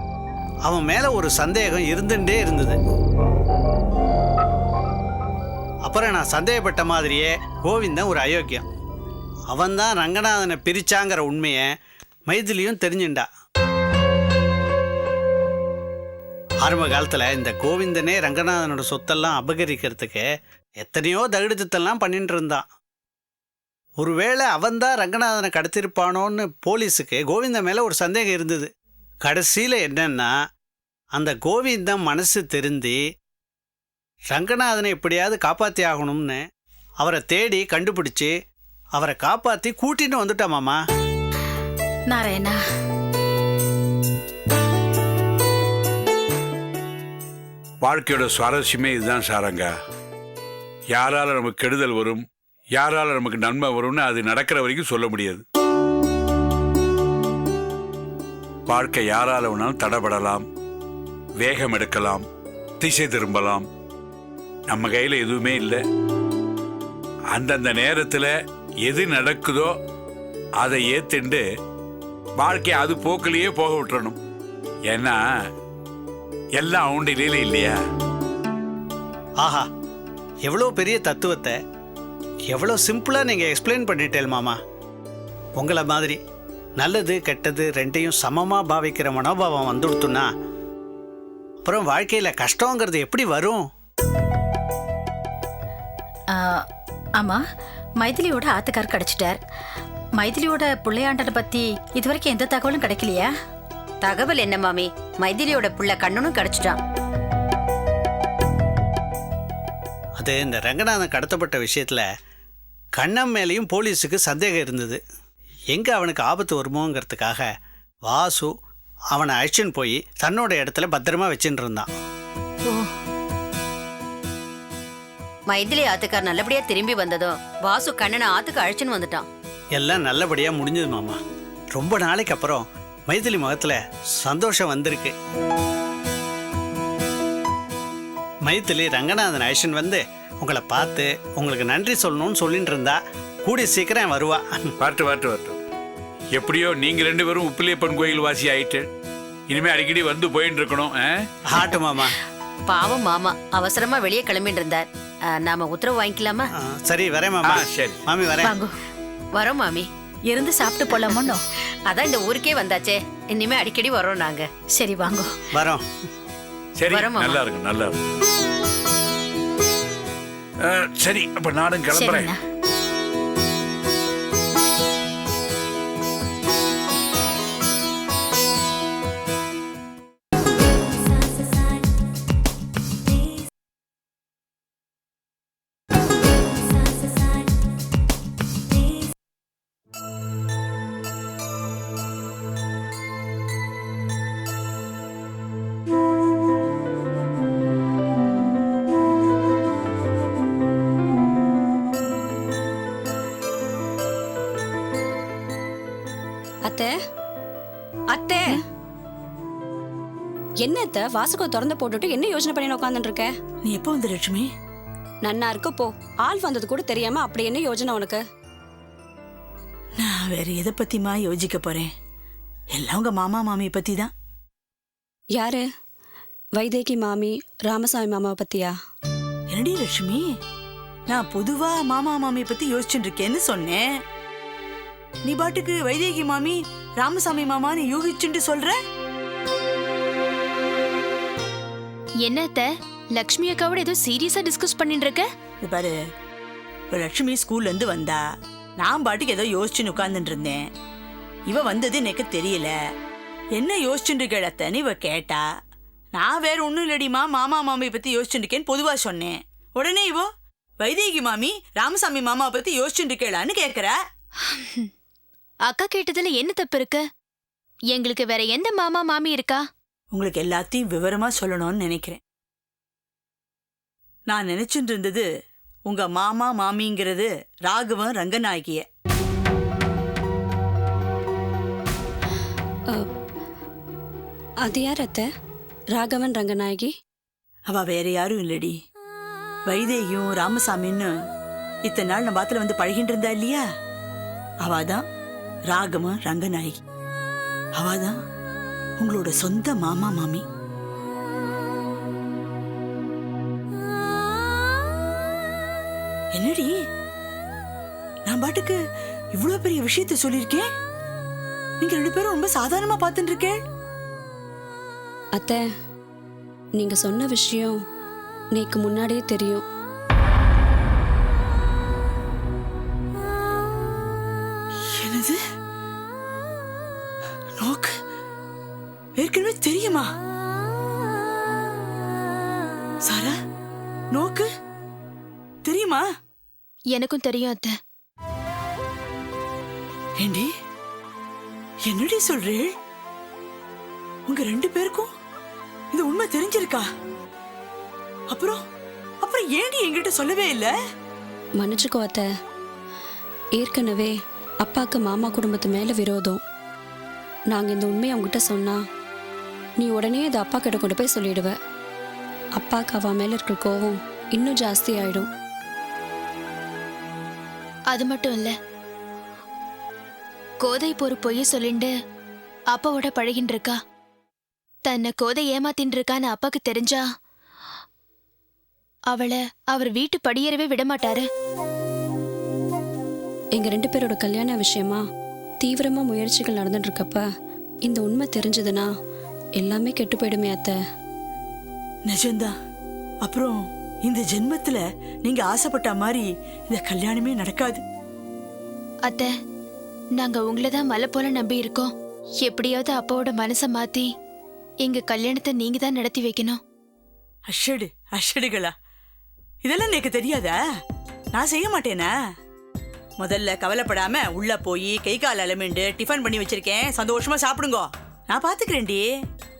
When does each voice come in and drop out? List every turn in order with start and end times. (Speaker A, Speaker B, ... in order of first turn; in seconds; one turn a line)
Speaker A: 0.6-2.8
Speaker A: 5.8-8.6
Speaker A: 9.5-11.7
Speaker A: 12.3-13.3
Speaker A: 16.6-20.2
Speaker A: 20.8-22.6
Speaker A: 24.0-28.7
Speaker A: 29.2-30.3
Speaker A: 31.1-33.0
Speaker A: 34.3-36.4
Speaker A: 37.0-38.3
Speaker A: 39.0-40.8
Speaker B: 42.1-42.5
Speaker C: 47.8-49.7
Speaker C: 50.9-52.2
Speaker C: 52.7-55.4
Speaker C: 58.7-60.4
Speaker C: 61.4-62.2
Speaker C: 62.8-63.6
Speaker C: 64.7-65.8
Speaker C: 67.3-68.3
Speaker C: 68.8-69.7
Speaker C: 70.6-71.4
Speaker C: 72.4-74.2
Speaker C: 74.9-75.2
Speaker C: 76.6-77.8
Speaker A: 79.4-79.7
Speaker A: 80.4-81.6
Speaker A: 82.5-84.6
Speaker A: 85.6-86.2
Speaker A: 86.8-90.3
Speaker A: 91.6-93.6
Speaker B: 98.0-99.4
Speaker B: 100.2-103.3
Speaker D: 104.0-106.8
Speaker A: 110.2-112.0
Speaker A: 112.9-115.0
Speaker A: 115.7-117.5
Speaker A: 118.0-118.5
Speaker A: 119.1-121.9
Speaker D: 125.5-129.3
Speaker A: 129.8-131.2
Speaker A: 131.7-135.1
Speaker A: 138.4-144.6
Speaker C: 144.8-145.6
Speaker C: 146.3-148.9
Speaker C: 149.5-151.1
Speaker A: 151.5-152.1
Speaker D: 152.7-154.8
Speaker D: 155.4-156.4
Speaker A: 156.6-158.5
Speaker C: 157.4-158.0
Speaker B: 158.4-158.7
Speaker D: 159.3-159.9
Speaker B: 160.3-161.4
Speaker D: 161.9-164.5
Speaker B: 164.7-165.4
Speaker A: 165.5-165.8
Speaker C: 166.8-167.9
Speaker E: 166.9-167.3
Speaker C: 170.6-172.3
Speaker B: 171.9-172.3
Speaker E: 206.7-206.9
Speaker E: 208.1-208.6
Speaker E: 210.6-213.3
Speaker F: 213.6-214.5
Speaker E: 215.2-218.2
Speaker F: 220.0-221.9
Speaker F: 222.7-224.1
Speaker E: 225.3-225.6
Speaker E: 226.6-228.7
Speaker F: 229.5-230.3
Speaker F: 231.1-233.8
Speaker F: 235.2-238.8
Speaker G: 242.2-245.2
Speaker F: 245.6-245.9
Speaker F: 246.9-248.2
Speaker F: 248.8-250.6
Speaker F: 251.5-252.7
Speaker F: 253.6-255.4
Speaker F: 256.1-260.3
Speaker F: 260.8-263.9
Speaker G: 265.6-267.0
Speaker G: 267.9-269.6
Speaker F: 270.1-272.2
Speaker F: 274.3-275.2
Speaker F: 275.9-278.8
Speaker E: 284.6-285.2
Speaker E: 285.9-286.9
Speaker F: 287.7-288.8
Speaker F: 289.7-291.1
Speaker F: 291.8-293.6
Speaker F: 294.6-295.0
Speaker F: 295.7-296.8
Speaker F: 297.8-298.1
Speaker F: 299.0-300.4
Speaker F: 306.3-306.7
Speaker F: 308.3-308.8
Speaker F: 309.3-310.7
Speaker F: 311.8-313.6
Speaker E: 316.8-317.8
Speaker E: 318.6-319.6
Speaker F: 325.0-325.4
Speaker F: 327.6-327.9
Speaker F: 329.2-330.1
Speaker F: 333.0-333.3
Speaker F: 334.1-334.5
Speaker F: 335.6-336.0
Speaker G: 336.9-337.7
Speaker F: 340.2-340.5
Speaker F: 341.9-342.7
Speaker F: 344.3-345.1
Speaker F: 345.9-346.8
Speaker F: 348.3-348.6
Speaker F: 349.2-350.7
Speaker E: 351.6-352.2
Speaker E: 353.6-356.4
Speaker E: 357.5-358.8
Speaker E: 359.8-361.5
Speaker E: 362.6-365.2
Speaker G: 367.9-368.5
Speaker G: 370.6-371.9
Speaker G: 372.7-373.7
Speaker G: 374.8-377.0
Speaker G: 379.1-381.3
Speaker E: 383.6-385.0
Speaker E: 385.6-387.2
Speaker E: 387.9-388.9
Speaker E: 389.6-390.8
Speaker F: 392.1-392.5
Speaker F: 393.2-397.8
Speaker G: 399.0-399.3
Speaker G: 400.2-404.1
Speaker G: 404.8-406.6
Speaker F: 407.5-408.7
Speaker F: 409.6-410.5
Speaker F: 411.3-412.1
Speaker F: 413.2-419.1